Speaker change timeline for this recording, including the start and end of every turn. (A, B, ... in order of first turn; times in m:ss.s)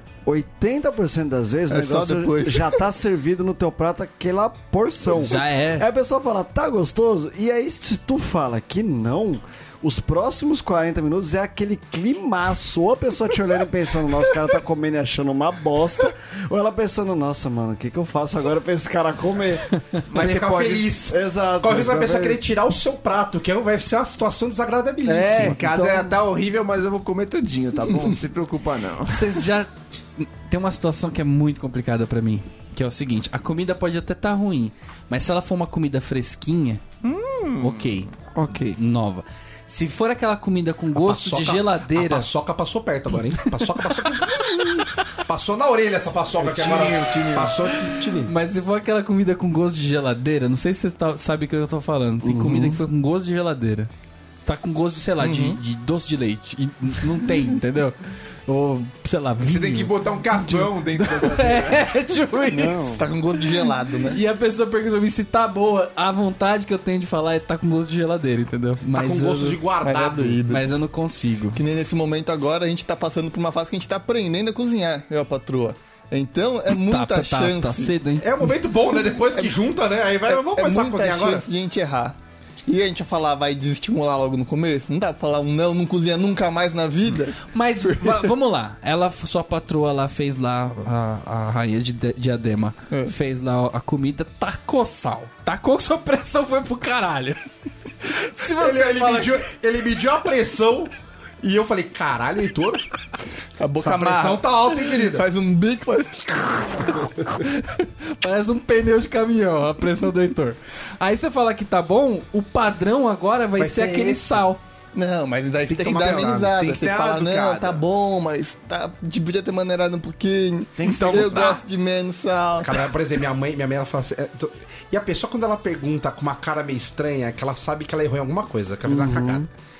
0:00.3-0:19.7 A
0:01.7-0:02.8 B
0:05.1-0:05.9 C
0:20.1-0:21.0 D
0:20.2-0:25.6 E
0:21.1-0:22.5 A
0:25.0-0:26.2 A
0:25.3-0:29.4 D
0:29.1-0:36.8 C
0:37.0-0:38.8 D
0:37.6-0:42.3 C
0:41.0-0:48.3 E
0:46.4-0:47.6 D
0:48.3-0:53.9 C
0:52.3-0:52.8 A
0:54.5-1:09.6 C
0:59.4-1:02.0 D
1:02.5-1:03.0 A
1:02.9-1:04.2 B
1:08.9-1:10.4 E
1:09.8-1:10.7 B
1:10.5-1:11.6 C
1:11.5-1:17.9 B
1:16.7-1:18.3 C
1:18.2-1:21.5 E
1:20.3-1:22.2 B
1:22.7-1:28.3 B
1:27.5-1:37.4 C
1:38.0-1:39.4 C
1:38.5-1:42.8 E
1:43.6-1:47.4 B
1:43.8-1:45.3 E
1:47.4-1:54.6 C
1:53.6-1:54.4 E
1:54.9-2:02.9 B
1:55.7-1:57.8 D
2:00.8-2:01.6 C
2:00.8-2:01.6 D
2:02.6-2:09.5 E
2:08.9-2:09.4 B